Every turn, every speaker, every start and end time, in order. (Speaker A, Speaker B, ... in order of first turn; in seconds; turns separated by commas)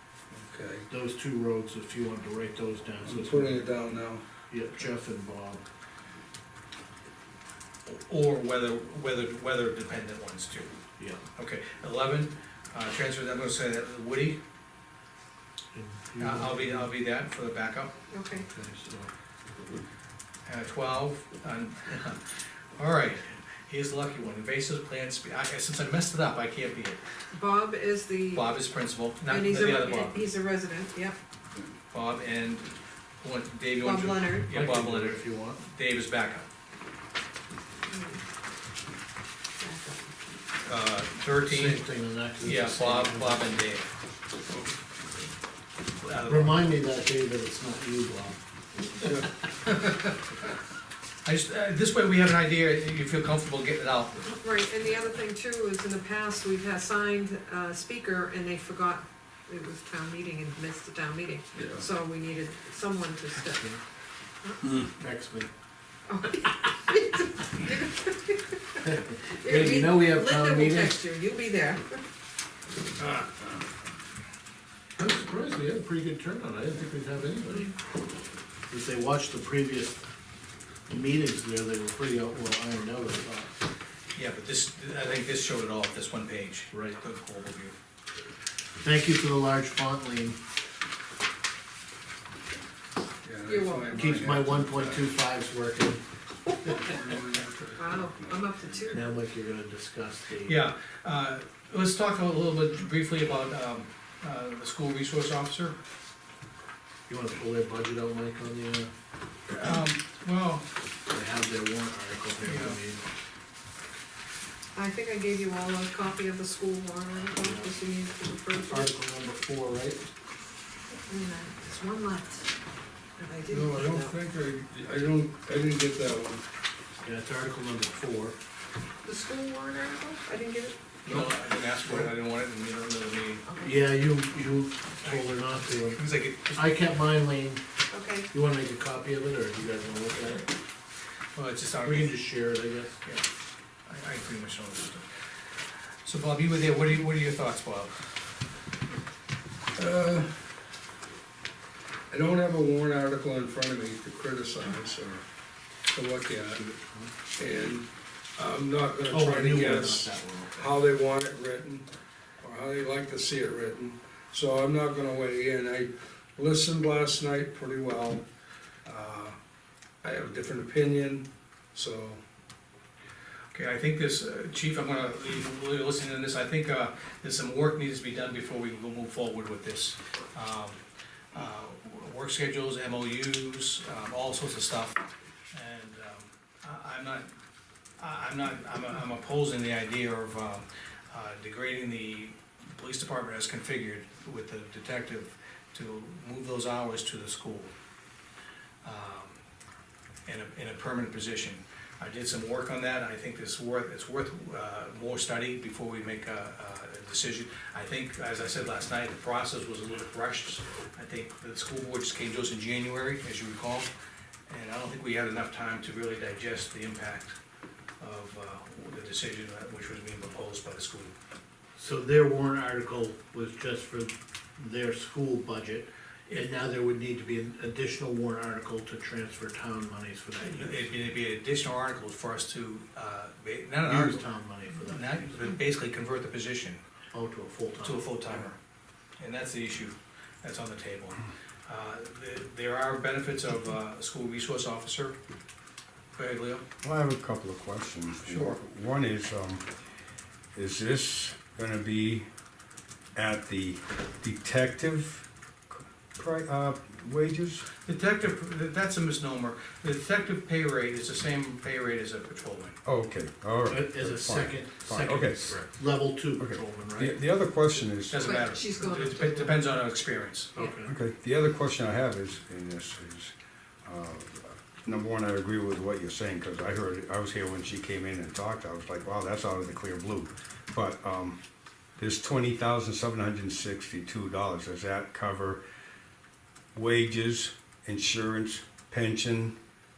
Speaker A: 0.3-0.9, Speaker B: 0.9-3.7, Speaker A: 3.0-4.2, Speaker B: 4.5-5.6, Speaker C: 7.9-10.7, Speaker C: 11.4-14.4, Speaker B: 15.7-16.9, Speaker C: 16.2-17.9, Speaker D: 18.1-18.4, Speaker B: 18.3-19.1, Speaker C: 20.5-22.2, Speaker C: 22.8-27.0, Speaker D: 27.3-28.6, Speaker C: 28.3-30.3, Speaker D: 29.3-31.2, Speaker C: 31.9-36.5, Speaker D: 33.8-34.5, Speaker B: 34.5-35.6, Speaker D: 37.9-38.2, Speaker D: 39.6-40.1, Speaker C: 40.6-41.9, Speaker B: 41.4-43.5, Speaker C: 42.4-43.9, Speaker C: 46.0-46.8, Speaker B: 46.2-48.4, Speaker D: 48.8-49.1, Speaker C: 51.2-54.3, Speaker D: 54.4-63.8, Speaker B: 64.8-65.5, Speaker D: 66.1-72.0, Speaker B: 68.8-71.0, Speaker B: 75.0-77.7, Speaker B: 78.7-80.0, Speaker B: 80.9-83.5, Speaker C: 84.2-87.8, Speaker B: 86.7-87.0, Speaker B: 88.8-90.4, Speaker A: 93.2-95.1, Speaker D: 93.5-94.1, Speaker B: 93.9-96.0, Speaker D: 96.7-97.0, Speaker A: 96.8-98.4, Speaker D: 97.8-99.1, Speaker B: 98.9-100.7, Speaker C: 100.5-105.8, Speaker B: 107.1-108.9, Speaker C: 109.5-110.7, Speaker B: 111.1-113.0, Speaker C: 112.5-112.8, Speaker D: 114.8-118.9, Speaker B: 117.4-117.7, Speaker B: 118.6-120.0, Speaker D: 121.1-122.5, Speaker D: 123.2-124.2, Speaker A: 123.5-126.5, Speaker B: 127.0-128.4, Speaker D: 129.1-130.9, Speaker C: 131.0-133.4, Speaker D: 133.5-133.9, Speaker B: 133.6-137.6, Speaker C: 135.0-136.9, Speaker D: 137.9-138.3, Speaker B: 138.3-140.5, Speaker C: 141.3-142.3, Speaker B: 141.8-143.0, Speaker C: 143.9-145.1, Speaker C: 146.1-148.0, Speaker A: 149.8-150.4, Speaker A: 152.1-155.2, Speaker A: 155.8-156.6, Speaker B: 156.4-157.1, Speaker A: 157.4-161.9, Speaker B: 159.1-160.6, Speaker A: 162.4-168.2, Speaker A: 168.8-169.4, Speaker A: 170.0-172.2, Speaker C: 173.5-180.8, Speaker C: 181.3-187.3, Speaker C: 188.0-197.7, Speaker C: 198.8-199.4, Speaker C: 200.3-213.9, Speaker C: 214.5-217.3, Speaker C: 218.0-221.1, Speaker B: 221.8-230.9, Speaker C: 230.4-236.8, Speaker B: 233.8-235.5, Speaker B: 237.1-238.5, Speaker C: 237.8-238.6, Speaker C: 239.2-245.2, Speaker C: 246.2-246.7, Speaker E: 246.8-249.7, Speaker C: 248.2-248.6, Speaker E: 250.6-252.3, Speaker E: 253.2-257.7, Speaker C: 257.8-262.8, Speaker E: 262.9-265.7, Speaker B: 263.7-267.2, Speaker E: 266.4-268.5, Speaker C: 268.1-270.6, Speaker D: 268.2-269.8, Speaker B: 270.5-270.9, Speaker E: 270.9-273.3, Speaker E: 273.8-281.4, Speaker E: 282.0-285.6, Speaker E: 286.7-289.6